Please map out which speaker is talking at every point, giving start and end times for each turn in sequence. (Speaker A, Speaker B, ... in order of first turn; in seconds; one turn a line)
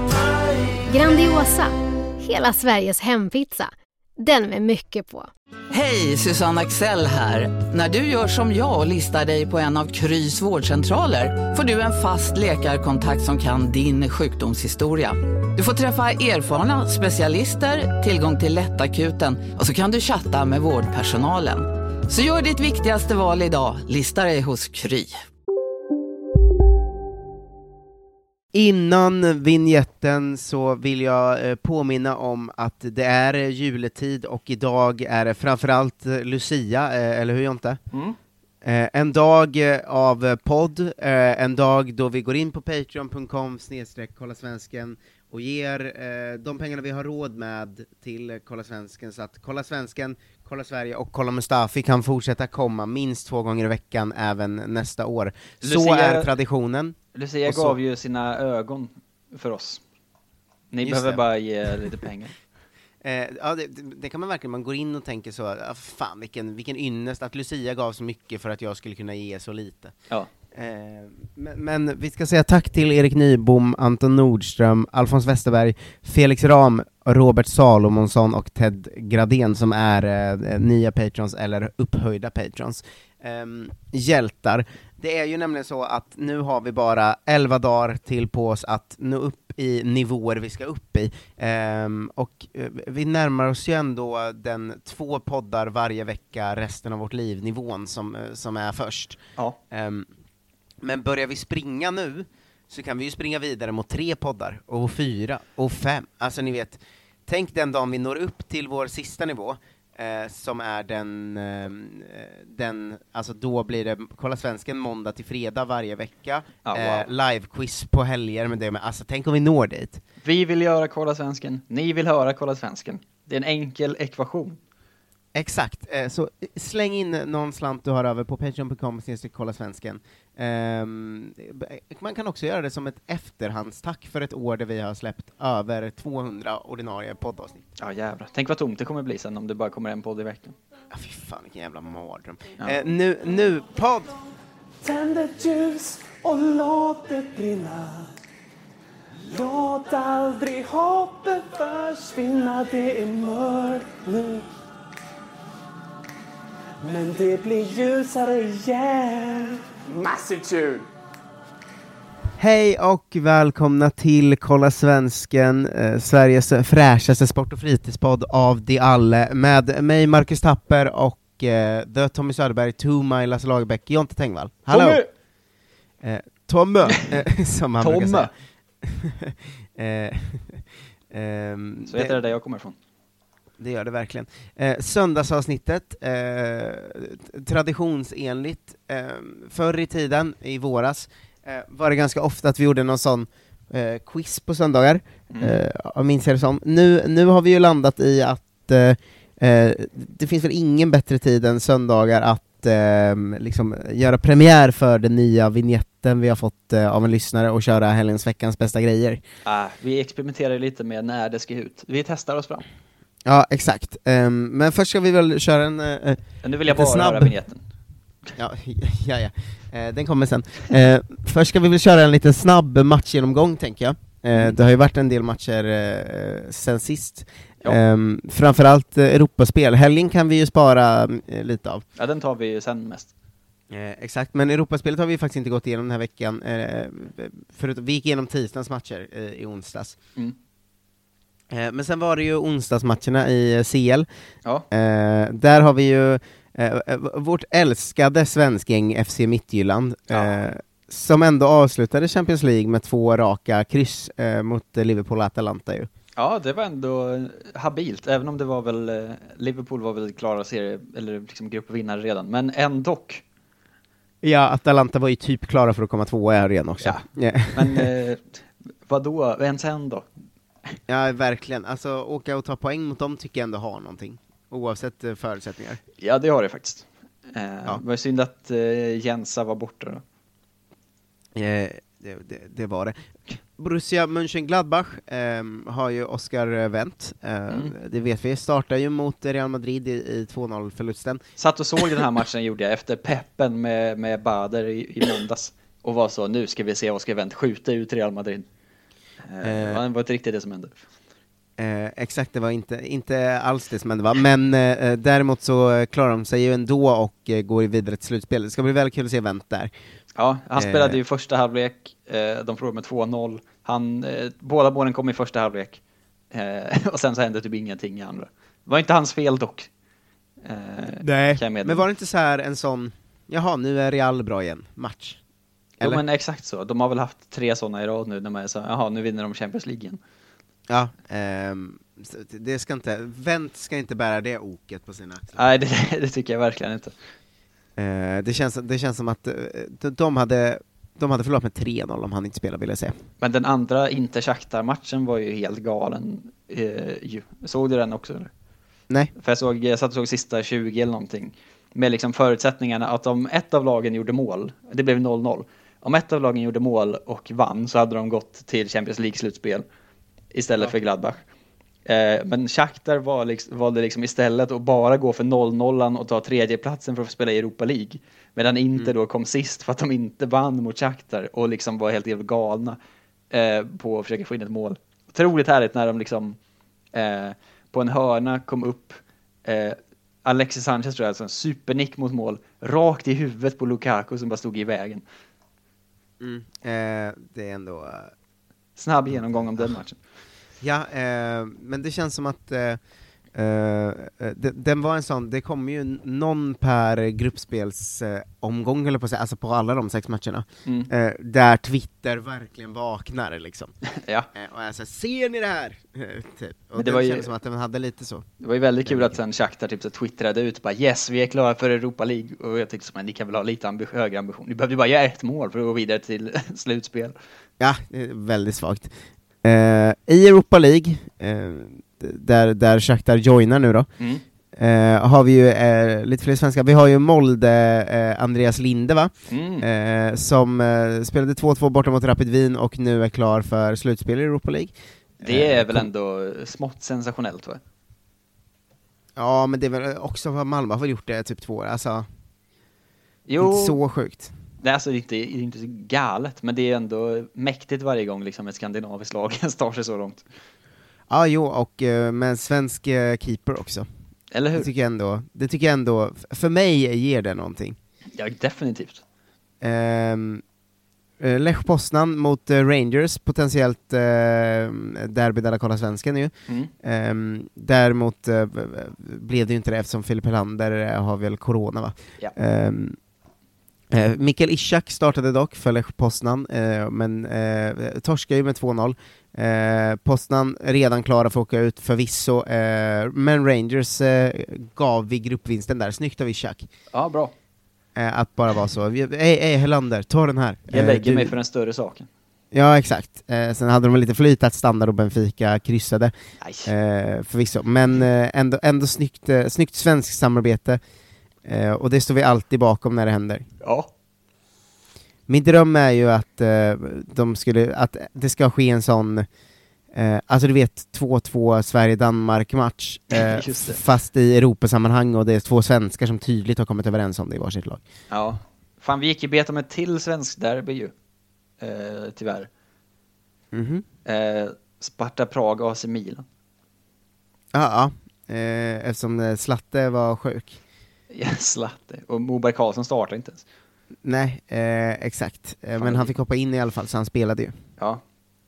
Speaker A: 0.9-5.3
Speaker B: 5.7-25.2
Speaker C: 28.5-37.8
Speaker D: 37.9-38.2
Speaker C: 38.6-57.8
Speaker D: 55.6-56.3
Speaker D: 57.1-59.8
Speaker D: 60.7-62.3
Speaker C: 60.8-61.2
Speaker C: 63.0-69.9
Speaker C: 70.5-99.2
Speaker C: 99.7-100.1
Speaker C: 100.8-120.0
Speaker D: 116.6-117.1
Speaker D: 120.2-124.6
Speaker C: 125.3-137.6
Speaker D: 137.8-140.6
Speaker C: 140.9-144.1
Speaker E: 144.8-148.1
Speaker E: 149.3-154.5
Speaker E: 156.8-160.8
Speaker C: 162.4-175.0
Speaker D: 174.7-175.1
Speaker C: 176.0-182.2
Speaker D: 177.8-178.3
Speaker D: 181.9-182.8
Speaker C: 183.6-209.2
Speaker D: 195.3-195.6
Speaker D: 209.4-212.6
Speaker C: 213.2-217.3
Speaker D: 216.4-217.6
Speaker C: 218.3-231.8
Speaker D: 231.9-233.1
Speaker C: 233.7-240.0
Speaker C: 241.5-244.1
Speaker C: 244.7-255.9
Speaker D: 250.1-250.4
Speaker D: 256.1-263.2
Speaker C: 264.2-267.9
Speaker D: 266.8-270.0
Speaker C: 270.9-275.8
Speaker D: 276.0-280.0
Speaker C: 281.3-282.9
Speaker C: 283.6-291.2
Speaker D: 291.4-298.4
Speaker D: 299.2-300.8
Speaker C: 299.4-299.8
Speaker C: 301.6-309.7
Speaker D: 310.1-315.8
Speaker C: 310.6-311.0
Speaker D: 316.3-319.7
Speaker D: 320.4-321.8
Speaker C: 321.0-325.2
Speaker D: 325.8-330.0
Speaker C: 330.7-335.5
Speaker D: 335.3-336.9
Speaker C: 337.8-343.0
Speaker D: 343.2-348.3
Speaker D: 349.1-359.6
Speaker D: 360.3-361.2
Speaker D: 361.8-372.8
Speaker D: 373.3-376.4
Speaker D: 376.9-385.0
Speaker C: 386.2-388.1
Speaker D: 388.8-390.0
Speaker C: 389.1-389.7
Speaker C: 390.6-392.8
Speaker C: 393.3-403.7
Speaker D: 400.6-400.9
Speaker D: 403.9-404.3
Speaker C: 404.3-408.2
Speaker D: 406.8-407.3
Speaker D: 408.4-417.1
Speaker C: 408.8-409.2
Speaker C: 417.6-423.9
Speaker C: 424.5-435.9
Speaker D: 429.3-429.6
Speaker D: 435.2-437.6
Speaker C: 439.1-442.1
Speaker D: 443.2-443.8
Speaker C: 443.4-444.3
Speaker D: 444.6-450.2
Speaker C: 451.1-453.9
Speaker D: 454.3-454.7
Speaker C: 454.5-457.8
Speaker D: 458.1-459.0
Speaker C: 459.6-460.4
Speaker C: 461.2-473.0
Speaker C: 473.9-486.7
Speaker D: 486.9-487.3
Speaker C: 487.9-491.3
Speaker D: 490.7-492.1
Speaker C: 492.5-496.1
Speaker D: 496.4-496.7
Speaker C: 496.6-500.8
Speaker C: 501.4-503.4
Speaker D: 503.6-503.9
Speaker C: 505.3-509.3
Speaker C: 509.9-517.8
Speaker D: 513.1-513.8
Speaker D: 518.1-520.9
Speaker D: 521.6-522.5
Speaker C: 523.5-523.8
Speaker D: 524.0-526.2
Speaker C: 527.5-530.6
Speaker D: 531.1-533.4
Speaker C: 534.0-537.5
Speaker D: 535.8-536.1